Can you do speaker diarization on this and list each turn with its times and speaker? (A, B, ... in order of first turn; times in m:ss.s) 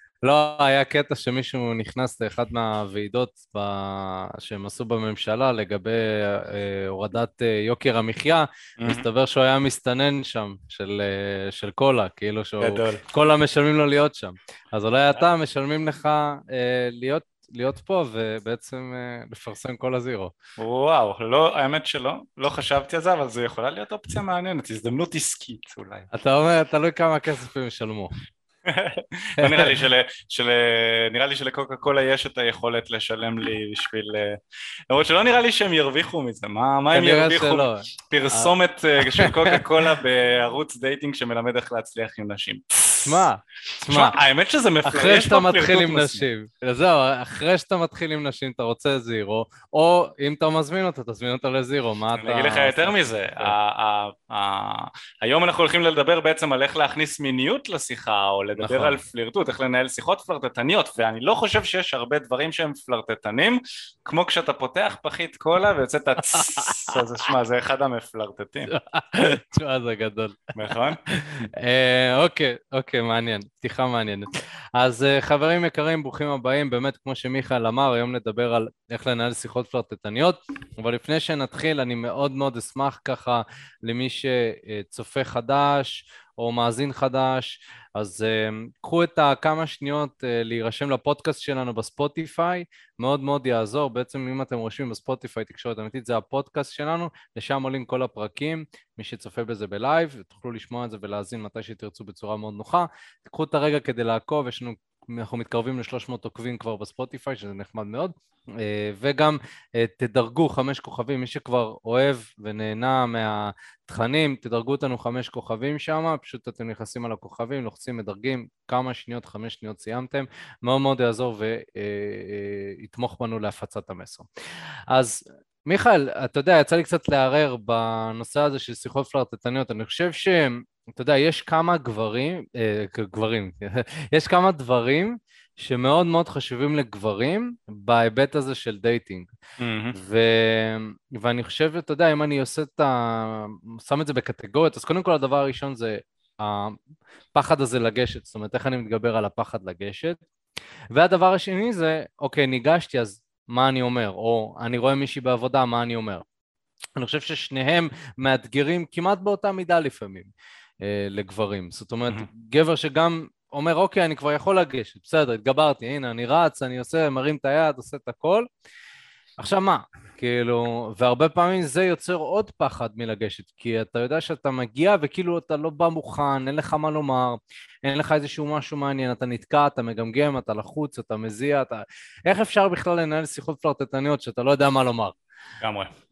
0:00.2-0:20.3 A
0:08.8-0:09.0 B
0:12.6-0:13.0 B
0:20.6-0:26.1 B
0:26.1-0:28.1 A
0:28.6-0:34.4 B
0:29.4-0:29.8 A
0:34.9-0:43.2 B
0:36.9-0:38.5 A
0:39.0-0:39.9 A
0:43.0-0:44.2 A
0:43.8-0:46.3 B
0:44.8-0:53.5 A
0:52.1-1:08.7 B
0:58.6-0:59.0 A
1:06.3-1:06.9 A
1:08.7-2:04.3 A
1:10.5-1:11.0 B
2:04.9-2:19.3 A
2:19.6-2:20.0 B
2:19.9-2:26.8 A
2:27.3-2:30.2 A
2:30.9-2:36.2 A
2:37.0-2:48.5 A
2:49.4-3:05.2 A
3:05.6-3:05.9 B